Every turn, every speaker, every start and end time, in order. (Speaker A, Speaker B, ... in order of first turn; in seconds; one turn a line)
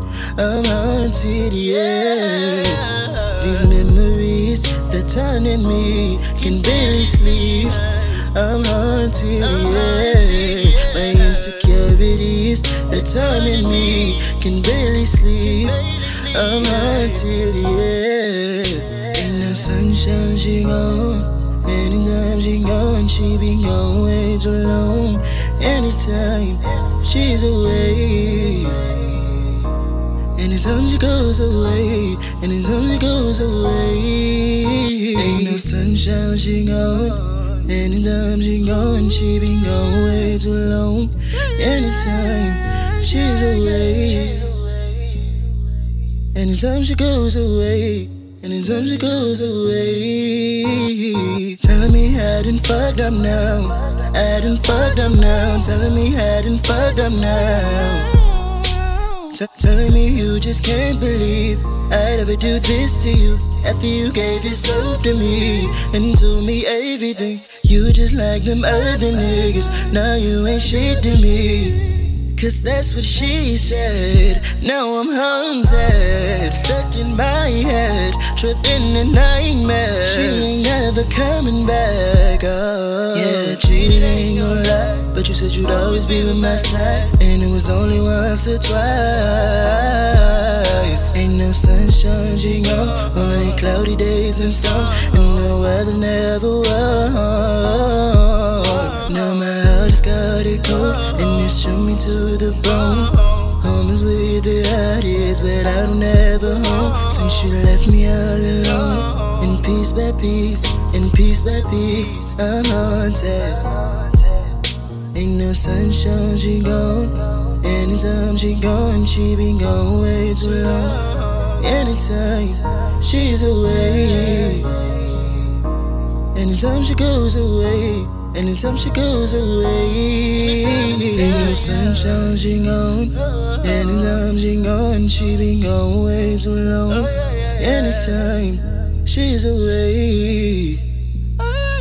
Speaker A: 0.4-28.9
Speaker A: 30.4-44.9
Speaker A: 46.3-58.2
Speaker A: 59.3-113.8
Speaker A: 115.1-124.8
Speaker A: 126.3-140.8